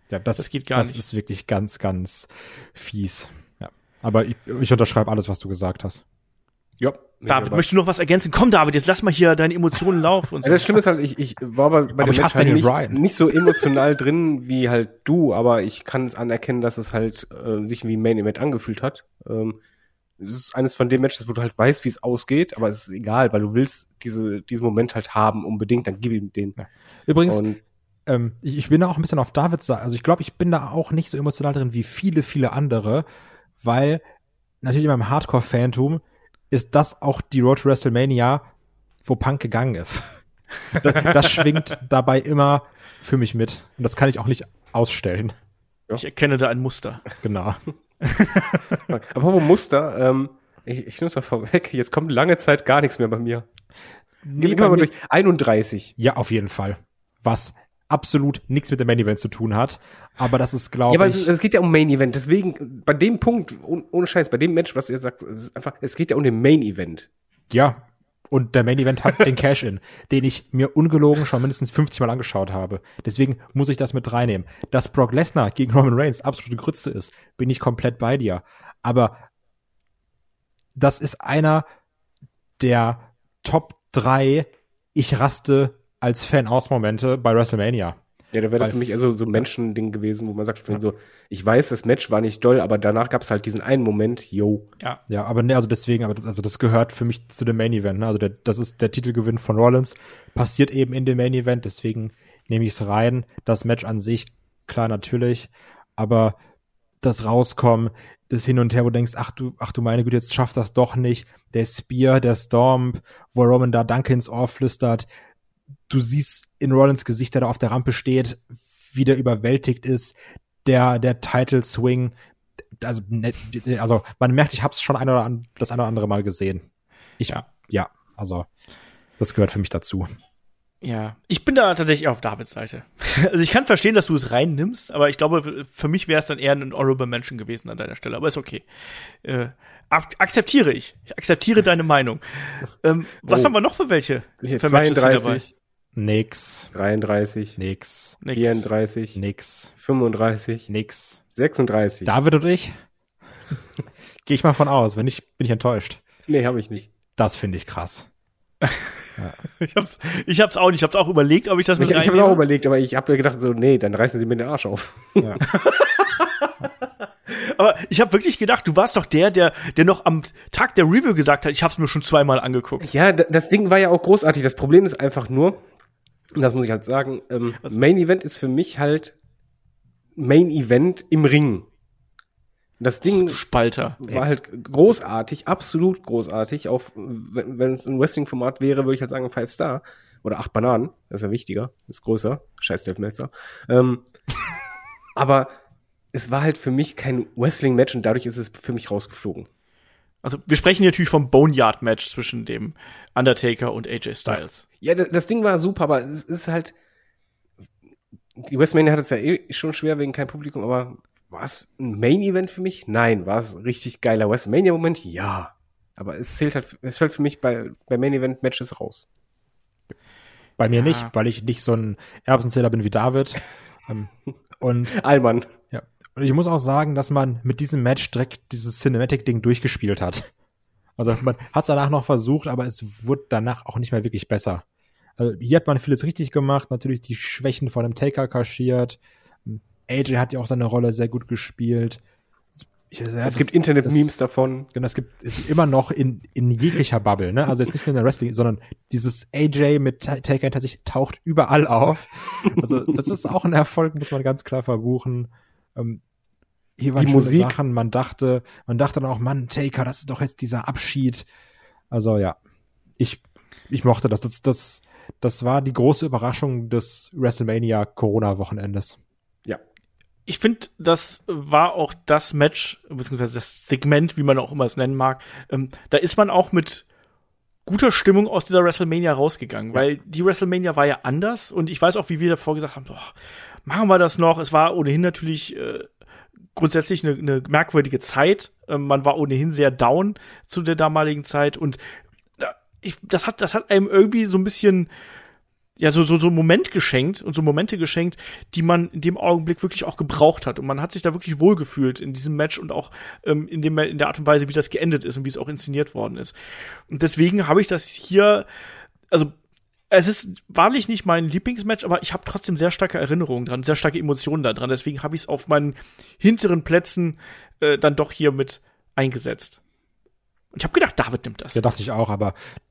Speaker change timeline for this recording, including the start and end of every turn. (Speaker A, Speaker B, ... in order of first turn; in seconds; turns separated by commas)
Speaker A: 0.1-6.0, Speaker B: 0.4-1.0, Speaker C: 6.8-7.7, Speaker B: 7.3-10.7, Speaker C: 10.4-19.6, Speaker A: 12.0-13.0, Speaker C: 20.2-26.6, Speaker A: 26.6-27.4, Speaker C: 27.3-27.6, Speaker A: 28.1-33.1, Speaker A: 33.6-34.0, Speaker A: 34.6-38.4, Speaker A: 39.0-40.2, Speaker A: 40.7-45.3, Speaker B: 46.0-47.0, Speaker A: 47.2-47.6, Speaker B: 48.0-48.6, Speaker C: 48.9-53.5, Speaker A: 54.3-54.9, Speaker C: 54.4-55.9, Speaker A: 56.0-61.3, Speaker C: 60.9-67.1, Speaker A: 67.5-79.3, Speaker A: 80.8-81.7, Speaker A: 82.6-88.0, Speaker C: 88.3-94.7, Speaker A: 95.1-106.4, Speaker A: 107.0-115.1, Speaker A: 115.9-122.2, Speaker A: 122.8-126.7, Speaker A: 127.2-128.5, Speaker A: 129.2-130.1, Speaker B: 130.8-138.7, Speaker B: 139.2-145.4, Speaker C: 143.3-143.5, Speaker C: 144.4-145.5, Speaker A: 146.0-146.7, Speaker C: 146.7-147.6, Speaker A: 147.6-148.2, Speaker B: 148.2-148.7, Speaker C: 148.3-149.2, Speaker A: 149.2-149.7, Speaker C: 149.8-150.7, Speaker A: 150.7-151.2, Speaker C: 151.3-152.2, Speaker A: 152.1-152.7, Speaker A: 154.2-156.0, Speaker C: 156.3-156.9, Speaker A: 157.2-158.1, Speaker B: 158.6-162.4, Speaker C: 161.8-165.4, Speaker B: 165.4-166.5, Speaker B: 167.3-172.9, Speaker C: 172.8-175.6, Speaker C: 176.3-179.1, Speaker C: 180.2-181.7, Speaker C: 182.8-183.4, Speaker B: 183.1-184.2, Speaker C: 184.0-194.0, Speaker C: 195.2-195.5, Speaker C: 196.1-199.5, Speaker B: 200.2-204.7, Speaker C: 204.8-206.7, Speaker C: 208.4-219.1, Speaker A: 220.6-224.1, Speaker B: 220.8-221.1, Speaker A: 224.6-225.0, Speaker C: 224.9-225.5, Speaker A: 225.7-230.3, Speaker A: 231.0-234.6, Speaker A: 235.2-242.0, Speaker A: 242.9-244.1, Speaker C: 243.2-244.7, Speaker A: 244.7-256.0, Speaker A: 256.8-261.3, Speaker C: 257.0-257.6, Speaker A: 261.9-262.4, Speaker A: 263.0-269.0, Speaker B: 270.3-276.9, Speaker B: 277.7-283.1, Speaker B: 283.7-285.9, Speaker B: 286.6-291.8, Speaker B: 292.4-294.9, Speaker B: 295.8-306.4, Speaker B: 306.9-308.5, Speaker B: 309.9-319.6, Speaker B: 320.5-321.6, Speaker A: 321.5-322.4